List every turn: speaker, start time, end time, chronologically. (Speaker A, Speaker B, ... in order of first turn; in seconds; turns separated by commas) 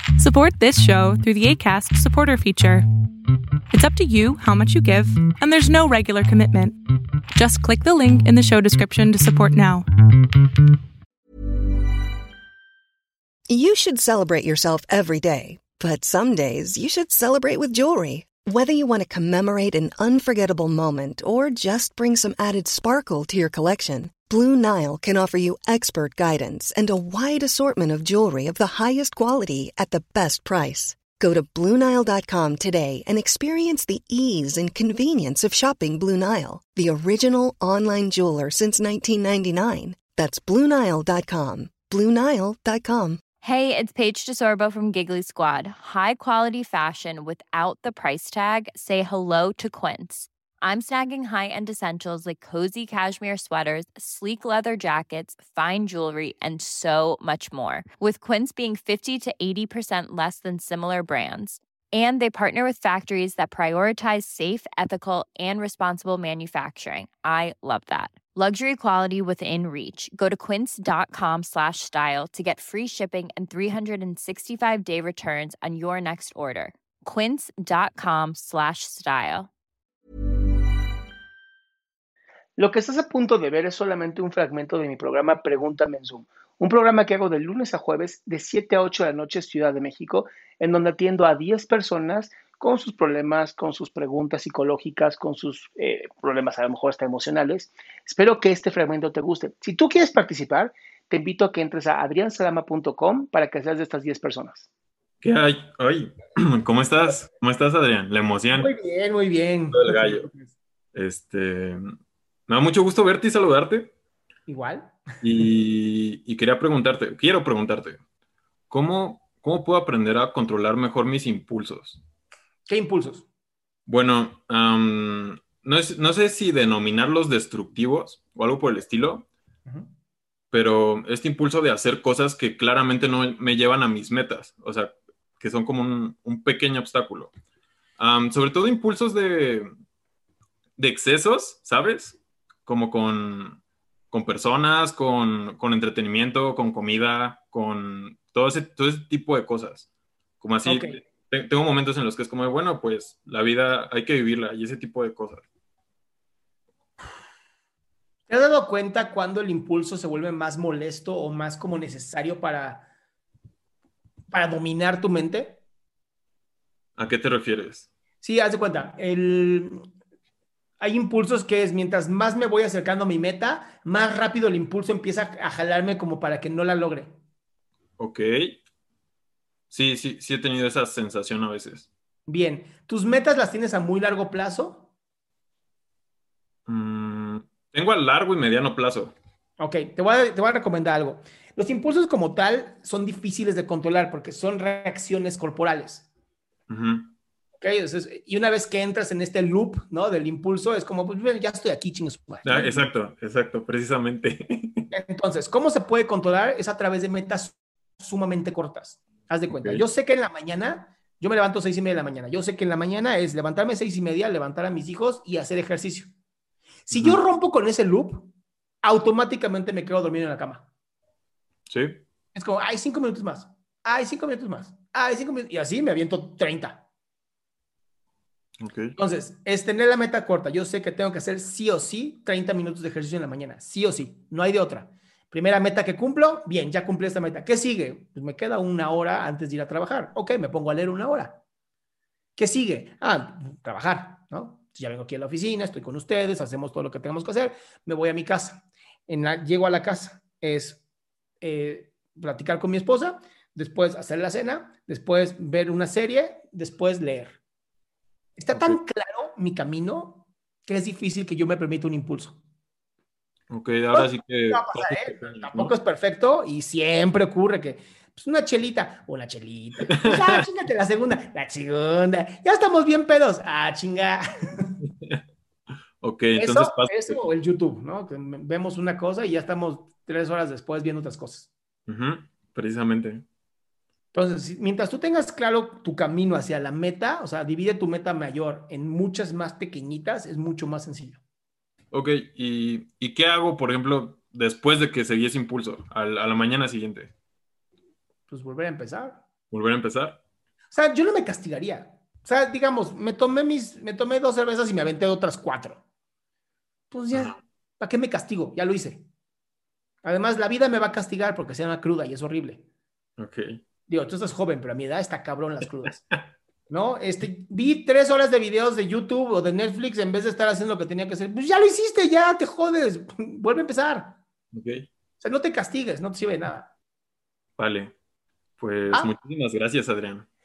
Speaker A: 0.2-2.9, Speaker A: 3.7-6.8, Speaker A: 7.3-9.9, Speaker B: 13.5-43.2, Speaker C: 43.5-50.2, Speaker C: 50.7-79.4, Speaker D: 82.6-104.7, Speaker E: 105.2-108.7, Speaker F: 108.5-110.5, Speaker E: 109.7-110.3, Speaker E: 110.9-111.8, Speaker E: 112.5-113.9, Speaker F: 114.5-115.0, Speaker E: 115.2-118.0, Speaker E: 118.7-122.0, Speaker F: 122.7-123.2, Speaker E: 123.9-129.3, Speaker F: 129.7-129.9, Speaker E: 130.5-137.3, Speaker E: 138.0-139.7, Speaker E: 140.8-149.8, Speaker E: 150.4-155.4, Speaker F: 150.7-151.0, Speaker F: 158.3-162.9, Speaker F: 164.3-165.6, Speaker E: 167.0-167.9, Speaker F: 168.2-169.8, Speaker F: 170.8-177.1, Speaker E: 178.0-178.6, Speaker E: 179.7-181.9, Speaker F: 182.3-184.9, Speaker E: 186.7-189.2, Speaker F: 189.6-196.1, Speaker E: 196.7-197.1, Speaker F: 197.6-202.9, Speaker E: 202.4-204.8, Speaker F: 204.9-216.1, Speaker E: 209.5-209.8, Speaker F: 216.9-218.3, Speaker E: 216.9-217.2, Speaker F: 218.8-220.7, Speaker E: 221.7-222.0, Speaker F: 222.3-226.8, Speaker E: 228.6-228.9, Speaker F: 229.0-241.4, Speaker F: 242.4-250.8, Speaker F: 251.4-257.4, Speaker F: 258.4-262.4, Speaker E: 263.5-265.7, Speaker F: 263.9-274.7, Speaker E: 269.9-270.4, Speaker E: 276.0-277.2, Speaker F: 276.4-281.5, Speaker E: 281.9-283.2, Speaker F: 284.1-291.2, Speaker E: 291.9-297.1, Speaker F: 298.3-299.2, Speaker E: 299.5-300.2, Speaker F: 300.7-305.8, Speaker F: 306.9-309.0, Speaker E: 307.1-307.4, Speaker F: 310.0-312.6, Speaker E: 313.2-313.6, Speaker F: 313.9-316.0, Speaker F: 316.7-324.2, Speaker E: 324.5-324.9, Speaker F: 325.2-326.7, Speaker E: 327.6-327.9, Speaker E: 328.6-330.2